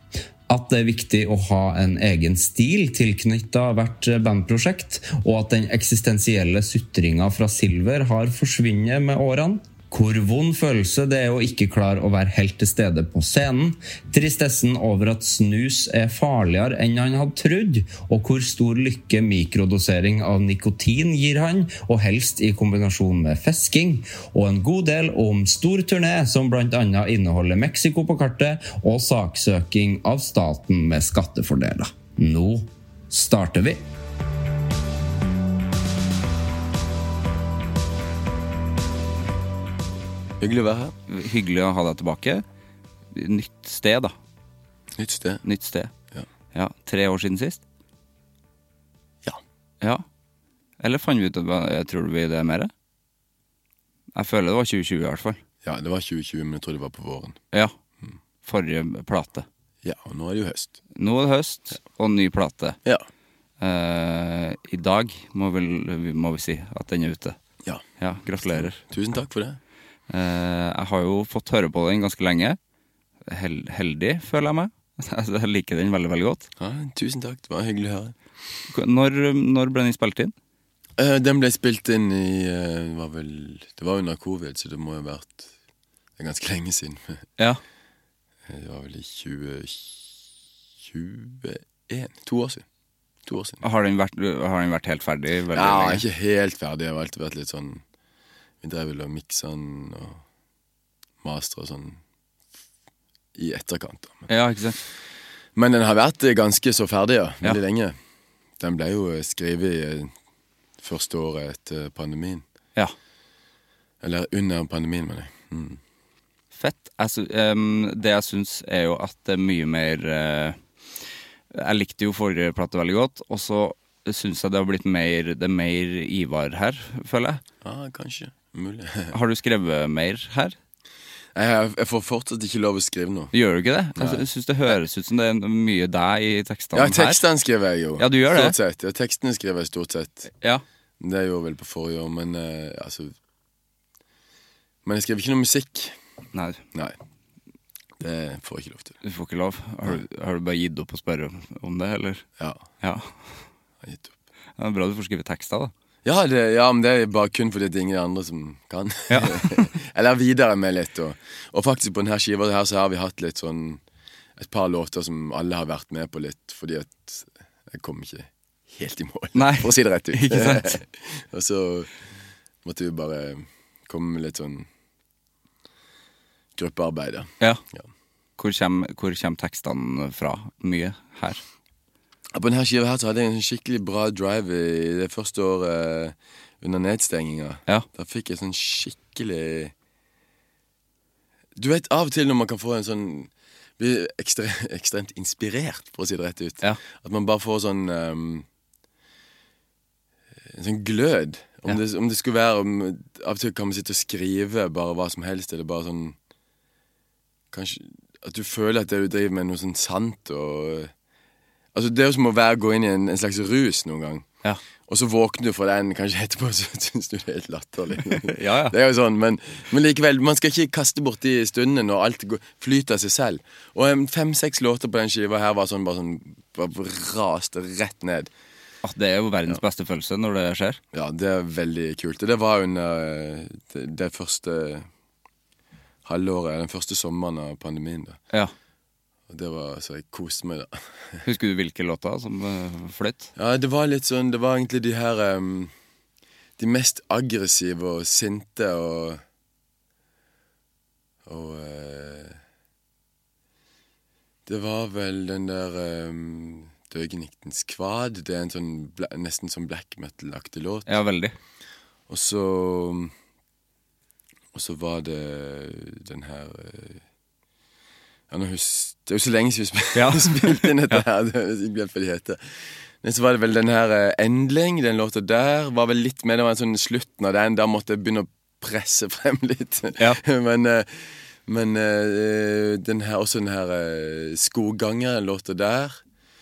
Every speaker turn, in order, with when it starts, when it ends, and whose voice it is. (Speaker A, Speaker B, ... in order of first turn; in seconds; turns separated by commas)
Speaker A: 0.5-33.8, Speaker B: 40.4-40.9, Speaker C: 41.1-42.4, Speaker C: 43.1-44.1, Speaker B: 45.0-45.4, Speaker C: 45.4-45.9, Speaker C: 46.5-47.6, Speaker C: 50.8-52.7, Speaker C: 54.1-55.4, Speaker B: 55.6-57.4, Speaker C: 58.4-59.5, Speaker B: 59.8-60.8, Speaker C: 60.9-62.8, Speaker C: 63.6-67.4, Speaker C: 68.0-68.8, Speaker B: 68.5-69.6, Speaker C: 70.1-72.6, Speaker C: 73.3-76.5, Speaker B: 76.6-78.1, Speaker C: 78.7-80.3, Speaker B: 81.0-85.5, Speaker B: 86.2-87.2, Speaker B: 88.5-90.2, Speaker B: 90.8-92.6, Speaker B: 93.2-93.6, Speaker C: 93.6-96.0, Speaker B: 95.5-97.8, Speaker B: 98.6-100.2, Speaker B: 101.2-102.0, Speaker B: 103.3-104.3, Speaker C: 104.3-104.8, Speaker B: 105.5-108.0, Speaker B: 108.6-110.1, Speaker B: 110.8-112.4, Speaker B: 114.0-115.8, Speaker C: 116.5-120.6, Speaker C: 121.5-127.4, Speaker B: 127.6-129.2, Speaker C: 129.1-130.6, Speaker B: 131.3-133.3, Speaker C: 133.3-137.2, Speaker B: 133.9-134.2, Speaker B: 136.7-140.3, Speaker C: 138.0-138.6, Speaker B: 141.0-143.1, Speaker B: 144.8-145.9, Speaker C: 146.3-146.6, Speaker B: 148.0-148.9, Speaker C: 149.0-152.2, Speaker C: 152.8-153.1, Speaker B: 153.8-154.1, Speaker C: 154.6-155.7, Speaker B: 156.0-163.8, Speaker C: 159.1-159.7, Speaker B: 164.4-171.9, Speaker C: 169.3-170.8, Speaker B: 172.6-174.7, Speaker B: 176.5-177.8, Speaker C: 178.4-181.4, Speaker B: 182.3-189.7, Speaker B: 191.6-198.4, Speaker B: 200.5-206.2, Speaker B: 207.5-210.9, Speaker B: 211.7-214.2, Speaker B: 214.9-228.3, Speaker C: 218.1-218.7, Speaker C: 228.8-230.8, Speaker B: 230.9-234.8, Speaker B: 236.0-238.2, Speaker B: 239.3-241.2, Speaker C: 241.2-243.3, Speaker B: 243.3-245.7, Speaker B: 246.6-249.2, Speaker B: 251.2-252.4, Speaker B: 254.4-260.9, Speaker C: 260.9-261.4, Speaker B: 262.1-263.1, Speaker B: 264.5-267.0, Speaker B: 268.3-272.4, Speaker C: 269.9-271.0, Speaker B: 273.0-286.0